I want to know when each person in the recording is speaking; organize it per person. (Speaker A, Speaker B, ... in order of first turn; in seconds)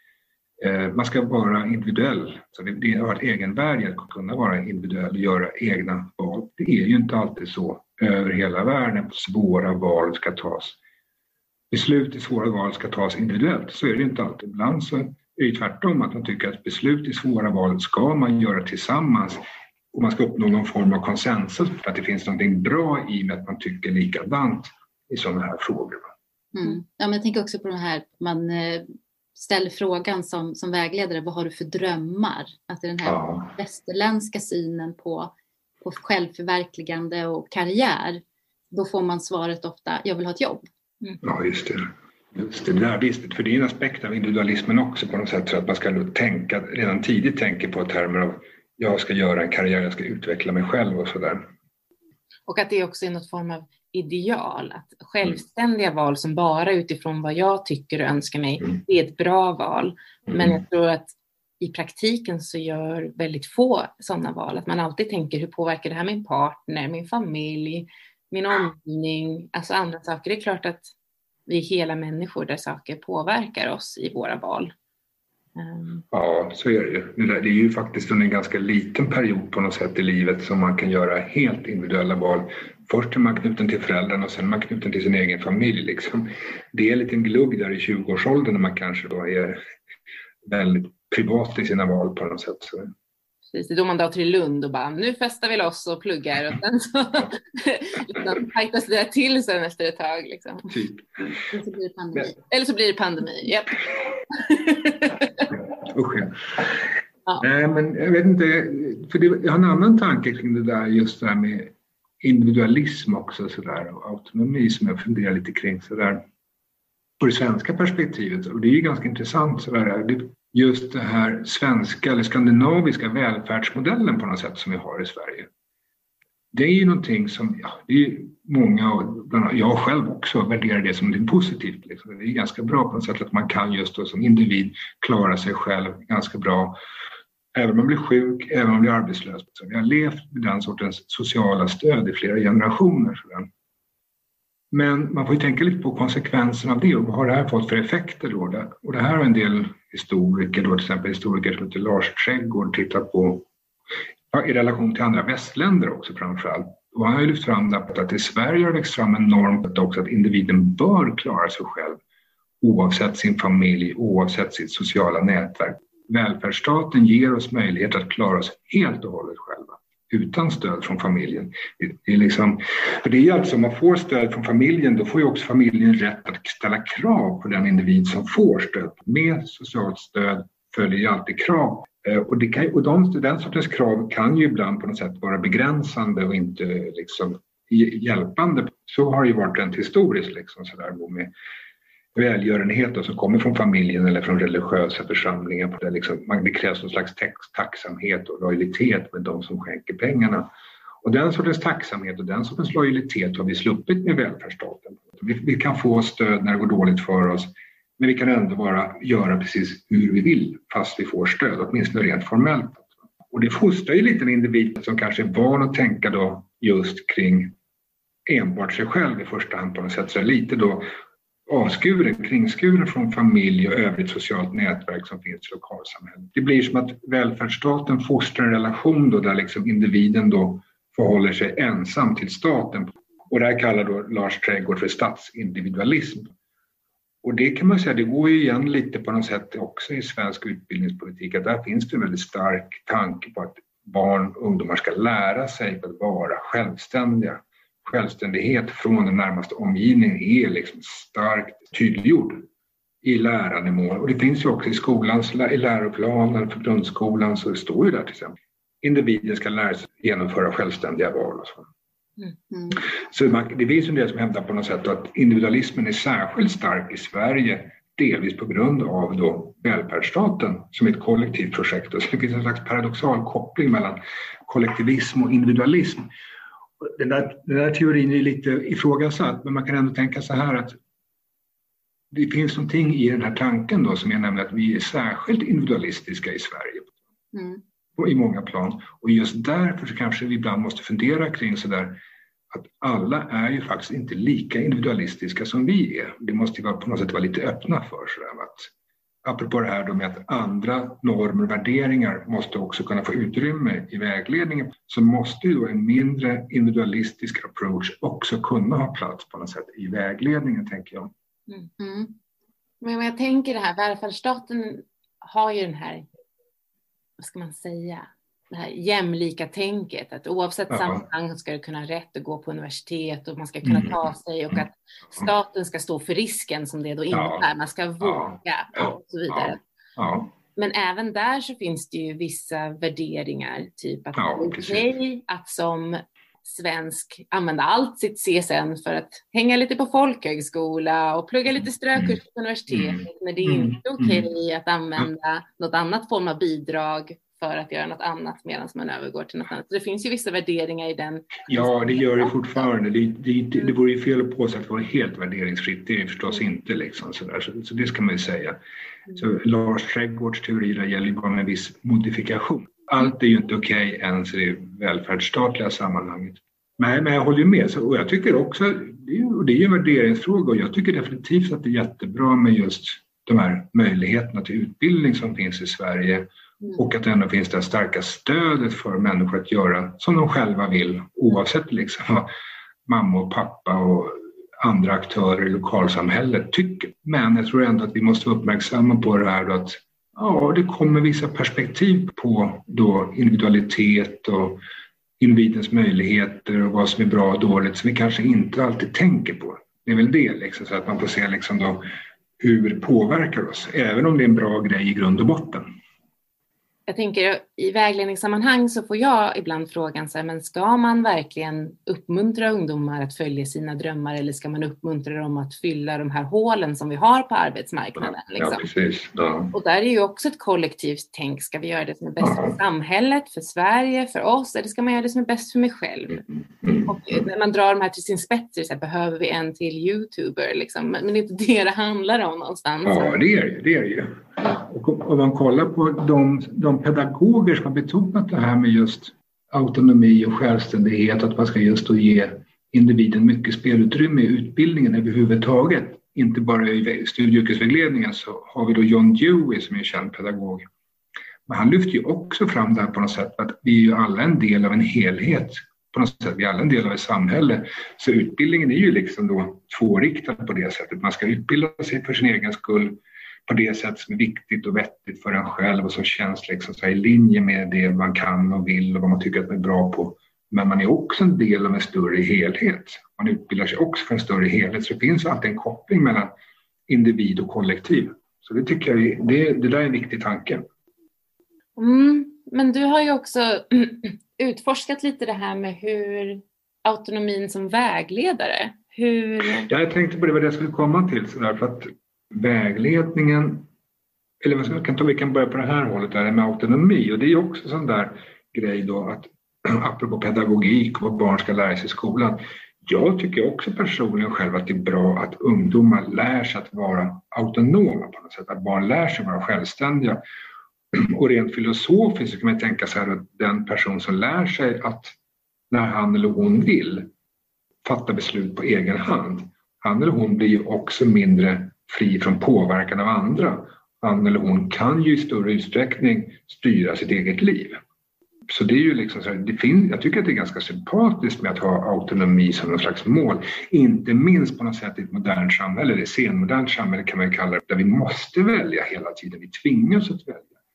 Speaker A: 0.6-10.8, 11.7-19.4, 19.9-26.1, 33.0-33.5, 41.2-51.5, 60.3-60.6, 76.1-89.6, 90.4-92.9, 100.7-101.1, 105.8-106.6, 107.4-116.2, 117.2-125.5, 126.5-136.8, 137.5-143.5, 144.7-153.5, 154.3-162.0, 162.6-191.3, 192.2-200.5, 201.0-217.6, 218.3-220.9, 221.5-236.3, 237.2-252.5, 253.0-261.7, 262.8-276.1, 276.8-280.8, 282.1-286.9, 288.0-292.0, 292.5-298.7, 299.2-311.1, 320.7-321.1, 323.6-324.6, 327.1-327.5, 328.0-330.3, 334.2-334.9, 341.6-342.2, 342.7-344.3, 351.5-358.6, 359.1-382.3, 382.9-394.6, 395.2-401.8, 402.4-405.7, 418.0-419.5, 422.2-422.6, 426.6-427.2, 432.9-450.7, 451.5-476.3, 476.9-480.6, 489.6-493.7, 494.4-510.2, 510.9-515.1, 515.7-517.1, 517.8-527.8, 528.5-540.5
Speaker B: 26.6-40.7, 101.5-102.3, 262.5-262.8, 287.3-287.6, 311.8-312.1
Speaker C: 52.5-70.9, 71.5-74.7, 75.6-76.0, 93.5-100.8, 102.3-105.5, 312.8-316.1, 317.2-329.6, 330.6-352.4, 406.9-418.6, 419.5-426.2, 426.9-433.2, 481.8-489.7